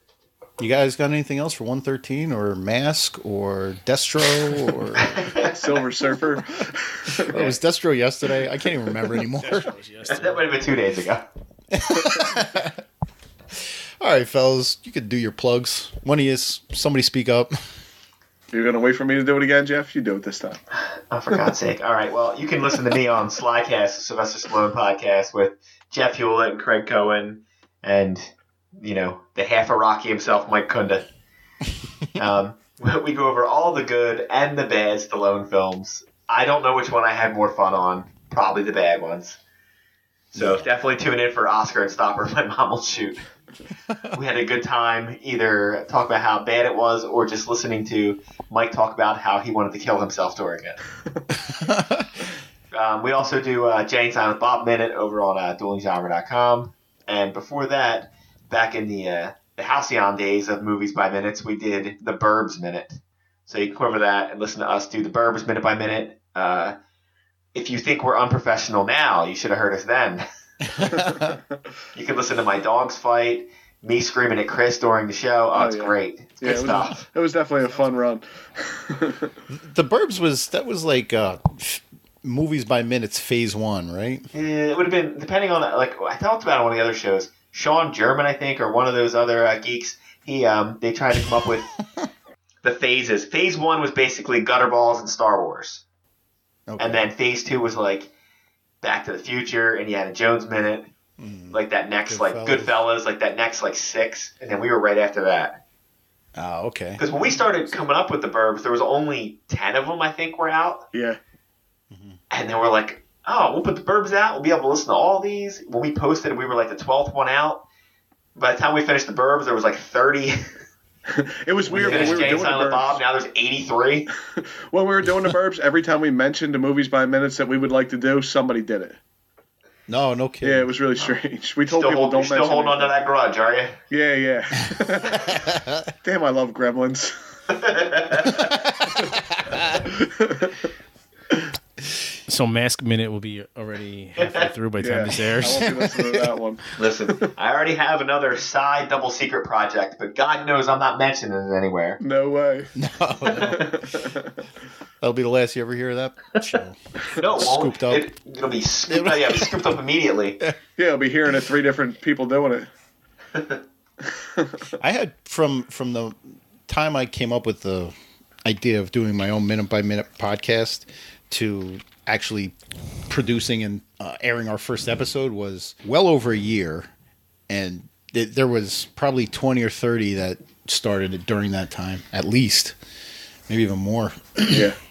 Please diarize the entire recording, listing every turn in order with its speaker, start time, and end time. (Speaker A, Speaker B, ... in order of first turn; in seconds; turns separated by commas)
Speaker A: 0.6-5.4, Speaker B: 5.0-5.5, Speaker C: 5.4-7.3, Speaker A: 7.2-9.7, Speaker D: 9.3-10.5, Speaker B: 10.1-11.3, Speaker A: 11.7-12.8, Speaker A: 14.0-17.6, Speaker C: 18.5-20.6, Speaker B: 21.1-31.1, Speaker B: 32.2-39.4, Speaker A: 40.3-40.7, Speaker B: 40.3-43.2, Speaker B: 44.1-50.8, Speaker A: 51.5-52.1, Speaker B: 52.7-66.8, Speaker B: 67.5-70.2, Speaker A: 70.7-71.4, Speaker C: 70.9-71.6, Speaker B: 71.9-77.0, Speaker C: 75.5-79.3, Speaker A: 79.5-84.3, Speaker B: 84.3-91.7, Speaker B: 92.6-95.8, Speaker A: 96.7-97.1, Speaker B: 96.8-98.1, Speaker B: 98.8-100.9, Speaker A: 101.2-102.8, Speaker B: 101.5-105.6, Speaker A: 106.4-107.0, Speaker B: 107.0-110.9, Speaker C: 110.9-111.2, Speaker A: 111.9-112.2, Speaker B: 112.3-117.6, Speaker B: 118.4-120.4, Speaker C: 121.1-123.0, Speaker A: 121.7-122.4, Speaker B: 121.8-124.1, Speaker C: 124.3-129.0, Speaker A: 129.9-131.1, Speaker C: 130.4-132.9, Speaker B: 131.7-133.8, Speaker C: 133.9-135.5, Speaker A: 135.1-135.9, Speaker C: 136.0-137.1, Speaker B: 137.5-138.6, Speaker A: 138.4-139.8, Speaker C: 139.7-140.6, Speaker D: 142.3-145.7, Speaker C: 144.8-147.2, Speaker A: 145.4-146.3, Speaker B: 146.8-152.0, Speaker C: 152.0-152.7, Speaker A: 152.8-153.8, Speaker C: 153.3-154.3, Speaker A: 155.0-158.1, Speaker B: 157.1-160.4, Speaker A: 158.9-159.6, Speaker C: 160.8-162.7, Speaker C: 164.2-164.7, Speaker A: 164.8-172.6, Speaker A: 173.1-176.9, Speaker A: 177.5-182.8, Speaker A: 183.5-184.7, Speaker C: 184.5-184.8